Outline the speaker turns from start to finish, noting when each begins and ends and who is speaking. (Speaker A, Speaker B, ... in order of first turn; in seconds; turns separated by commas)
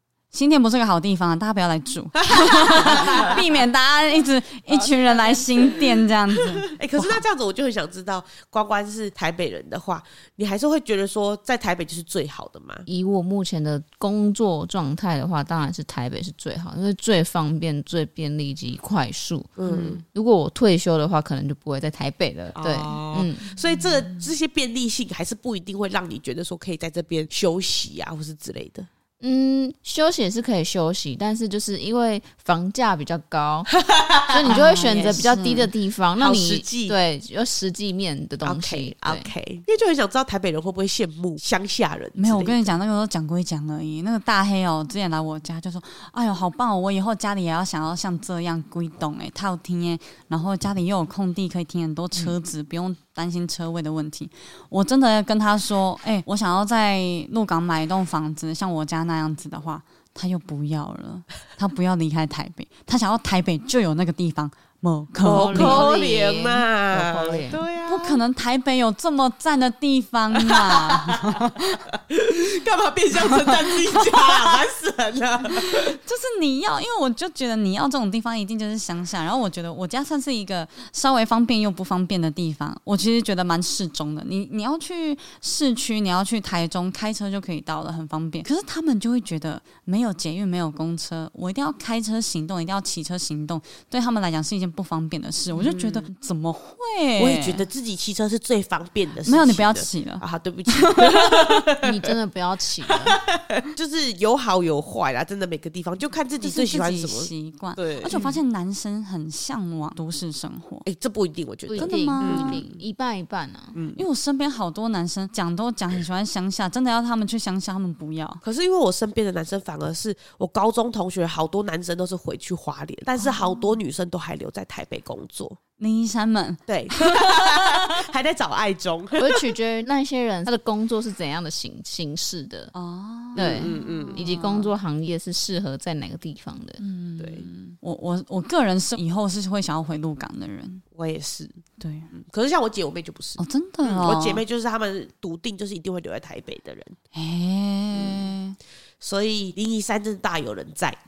Speaker A: 0.3-7.2, Speaker B: 2.2-3.5, Speaker B: 4.7-12.9, Speaker C: 12.9-23.5, Speaker B: 19.6-20.0, Speaker B: 22.6-28.9, Speaker C: 29.2-33.7, Speaker B: 33.8-35.2, Speaker C: 34.3-39.3, Speaker A: 34.5-35.7, Speaker B: 36.2-37.0, Speaker B: 38.4-42.8, Speaker A: 42.2-65.9, Speaker B: 65.2-68.2, Speaker C: 65.2-67.7, Speaker A: 67.9-71.8, Speaker B: 70.3-76.0, Speaker A: 73.2-74.6, Speaker A: 75.5-97.6, Speaker B: 95.5-96.1, Speaker B: 97.2-102.1, Speaker A: 99.2-101.6, Speaker C: 101.8-103.2, Speaker B: 102.9-108.2, Speaker A: 106.4-110.8, Speaker B: 110.8-112.8, Speaker C: 111.7-113.8, Speaker A: 111.8-112.6, Speaker B: 113.7-114.0, Speaker A: 113.9-118.4, Speaker B: 118.4-125.6, Speaker A: 125.8-128.0, Speaker B: 126.7-129.5, Speaker C: 129.2-132.7, Speaker A: 132.7-134.7, Speaker B: 133.3-134.2, Speaker C: 133.3-136.8, Speaker A: 136.8-140.8, Speaker B: 137.2-137.5, Speaker B: 140.9-147.0, Speaker A: 141.8-142.1, Speaker A: 143.4-144.4, Speaker A: 147.1-148.6, Speaker B: 147.9-148.3, Speaker B: 149.0-151.0